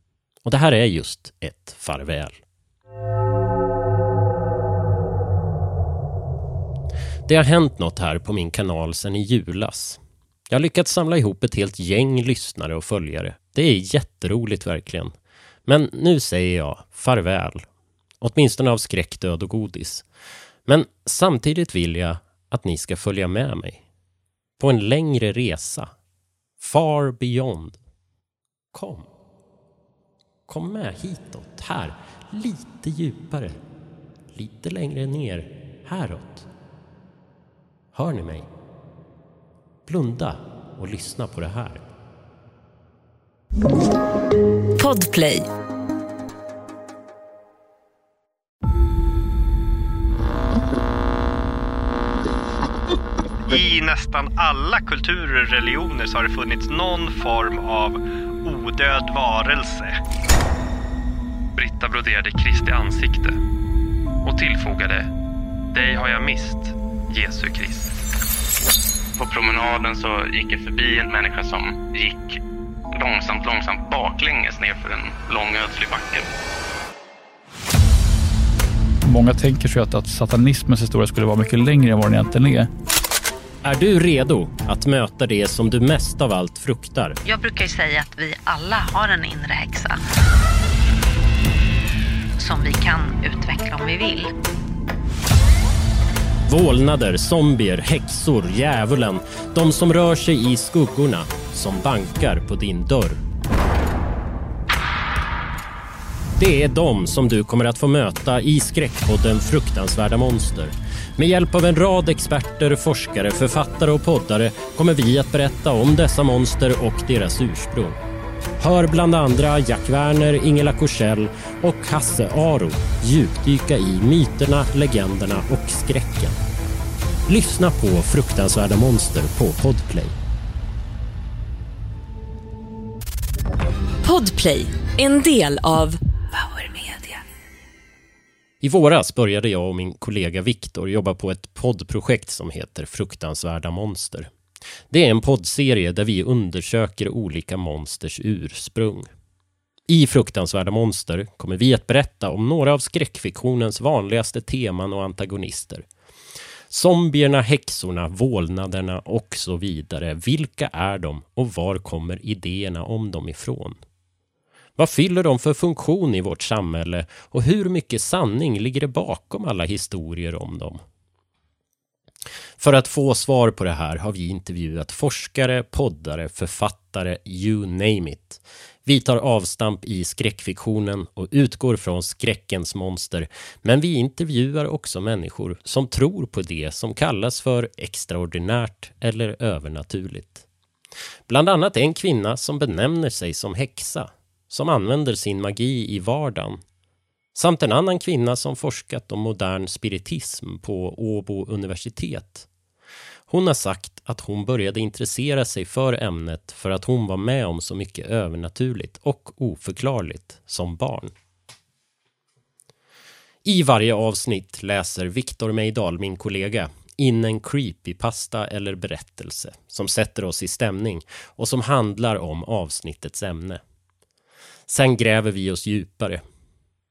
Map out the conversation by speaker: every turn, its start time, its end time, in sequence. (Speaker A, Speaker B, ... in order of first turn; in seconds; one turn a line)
Speaker A: 0.4-2.4
Speaker A: 7.3-15.1
Speaker A: 15.7-17.6
Speaker A: 18.2-20.1
Speaker A: 20.7-23.8
Speaker A: 24.6-25.9
Speaker A: 26.6-27.8
Speaker A: 28.7-29.1
Speaker A: 30.5-33.5
Speaker A: 34.3-36.5
Speaker A: 37.9-38.5
Speaker A: 39.9-41.8
Speaker B: 44.8-45.5
Speaker C: 53.5-60.0
Speaker D: 61.5-63.4
Speaker D: 64.2-65.1
Speaker D: 65.7-68.0
Speaker E: 69.2-72.4
Speaker E: 72.9-76.3
Speaker F: 79.0-82.7
Speaker A: 83.6-87.2
Speaker G: 87.2-90.0
Speaker G: 92.4-94.3
Speaker A: 96.5-103.2
Speaker A: 106.4-118.0
Speaker A: 118.6-126.4
Speaker A: 127.3-130.1
Speaker B: 134.0-137.2
Speaker A: 138.6-144.3
Speaker A: 144.9-149.1
Speaker A: 149.9-155.8
Speaker A: 156.7-163.8
Speaker A: 164.8-170.8
Speaker A: 172.6-190.4
Speaker A: 191.3-196.6
Speaker A: 197.3-202.5
Speaker A: 203.3-211.1
Speaker A: 213.4-223.6
Speaker A: 224.7-226.2